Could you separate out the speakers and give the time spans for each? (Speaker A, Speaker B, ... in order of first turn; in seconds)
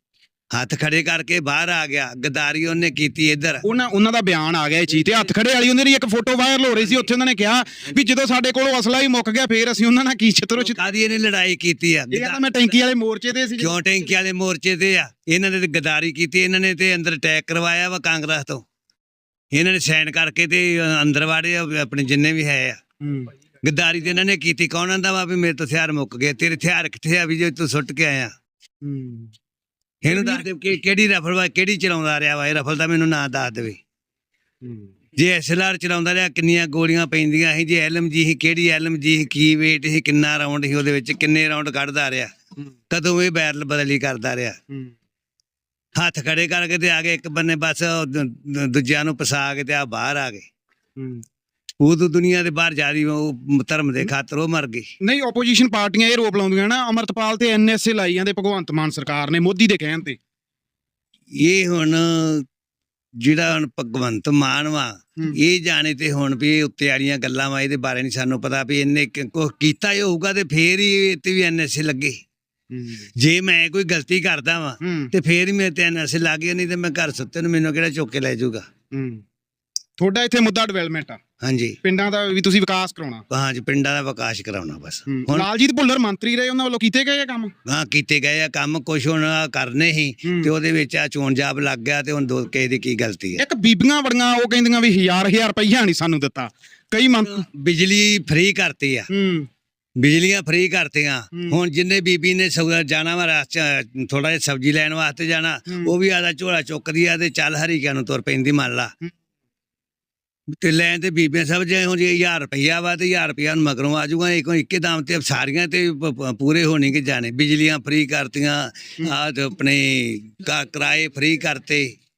Speaker A: 0.5-3.6, 10.6-12.5, 13.6-18.6, 19.5-22.8, 23.6-28.3, 30.0-33.8, 35.2-42.3, 42.9-44.6, 46.0-50.5, 51.8-54.9, 61.4-62.5, 63.2-72.2, 73.2-78.7, 81.4-81.8, 83.3-85.5, 87.7-93.4, 97.2-99.1, 100.0-108.9, 110.6-121.9
Speaker B: 3.6-10.8, 12.1-13.8, 23.0-23.3, 28.8-29.3, 30.1-30.4, 34.6-34.9, 51.0-51.2, 55.0-60.2, 72.7-73.1, 74.8-75.1, 78.9-79.2, 80.0-81.2, 81.8-83.2, 85.1-87.5, 90.2-90.5, 93.4-97.5, 99.1-99.5, 101.3-101.6